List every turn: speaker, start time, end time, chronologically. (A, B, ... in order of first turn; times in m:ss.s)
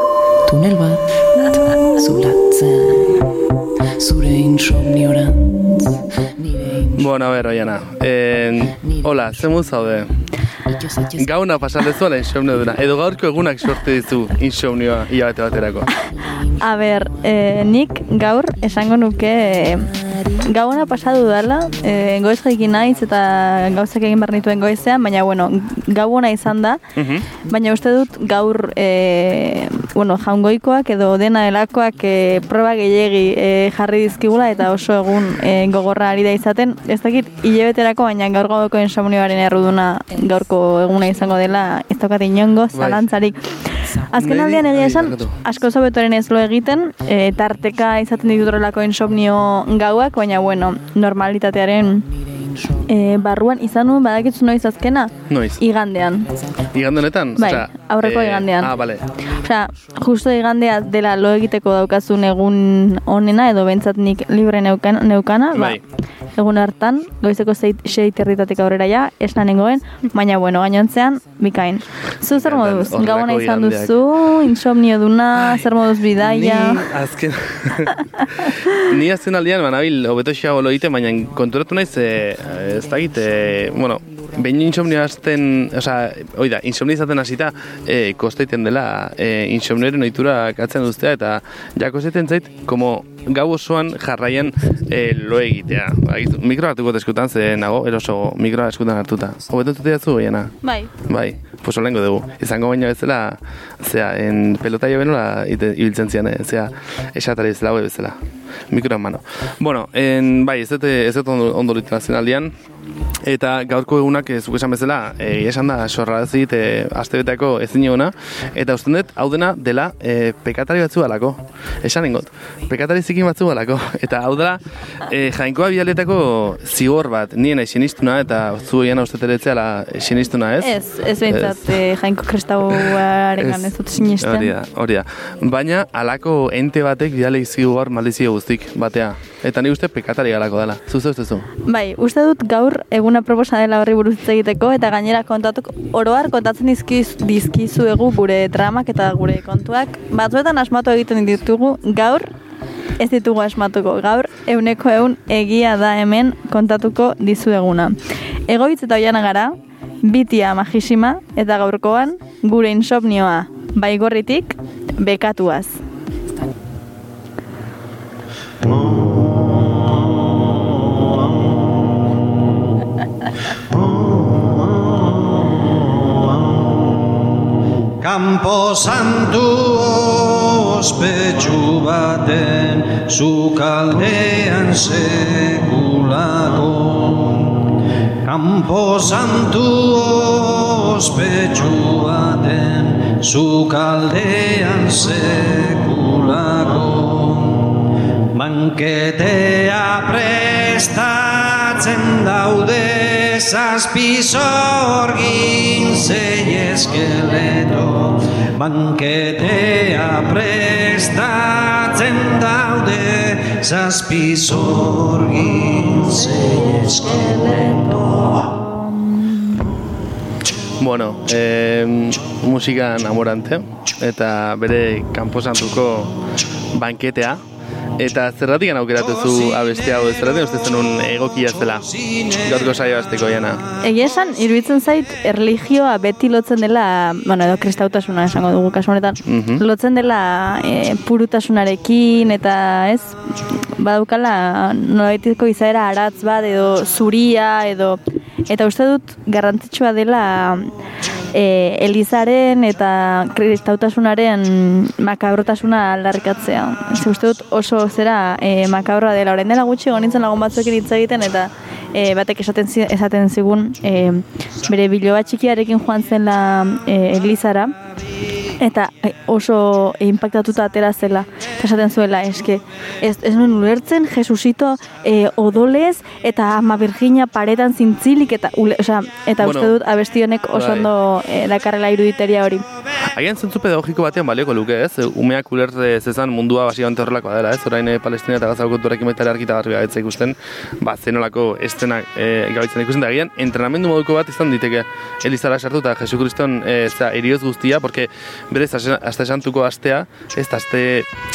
0:00.4-0:03.3 A
0:04.0-0:07.1 A
0:07.0-0:10.1 B
0:08.4-0:10.0 A
0:10.6-0:11.4 A
0:11.2-0:15.9 B
0:15.8-0:17.7 A
0:16.6-0:19.9 C
0:18.7-0:24.5 A
0:20.4-0:26.8 C
0:26.9-0:27.3 B
0:27.4-0:52.0 C
0:42.7-0:43.1 B
0:44.1-0:45.4 B
0:52.1-0:52.9 A
0:52.9-0:56.3 C
0:55.3-0:55.6 B
0:56.4-0:56.6 A
0:56.7-0:59.0 B
0:57.4-0:58.7 C
0:59.1-0:59.5 A
0:59.3-1:05.8 C
1:05.5-1:05.8 B
1:06.4-1:16.8 C
1:12.3-1:14.0 B
1:16.2-1:48.2 B
1:24.0-1:24.3 A
1:40.6-1:40.9 C
1:48.7-1:52.5 B
1:53.2-2:10.7 B
2:10.6-2:14.5 C
2:11.2-2:11.8 B
2:13.4-2:21.4 B
2:21.7-2:32.3 C
2:33.0-2:45.8 C
2:53.7-2:55.0 D
2:56.2-2:56.6 D
2:58.0-3:07.7 D
3:08.2-3:38.2 D
3:36.8-3:39.4 C
3:40.8-3:46.1 B
3:46.7-3:47.4 B
3:48.0-3:51.8 B
3:49.3-3:49.7 D
3:51.6-3:52.6 D
3:52.4-3:53.6 B
3:53.8-4:03.1 C
3:59.2-3:59.6 B
4:03.8-4:10.7 C
4:11.3-4:27.7 C
4:28.6-4:42.6 C
4:39.4-4:39.8 B
4:40.5-4:40.9 B
4:43.1-5:01.1 B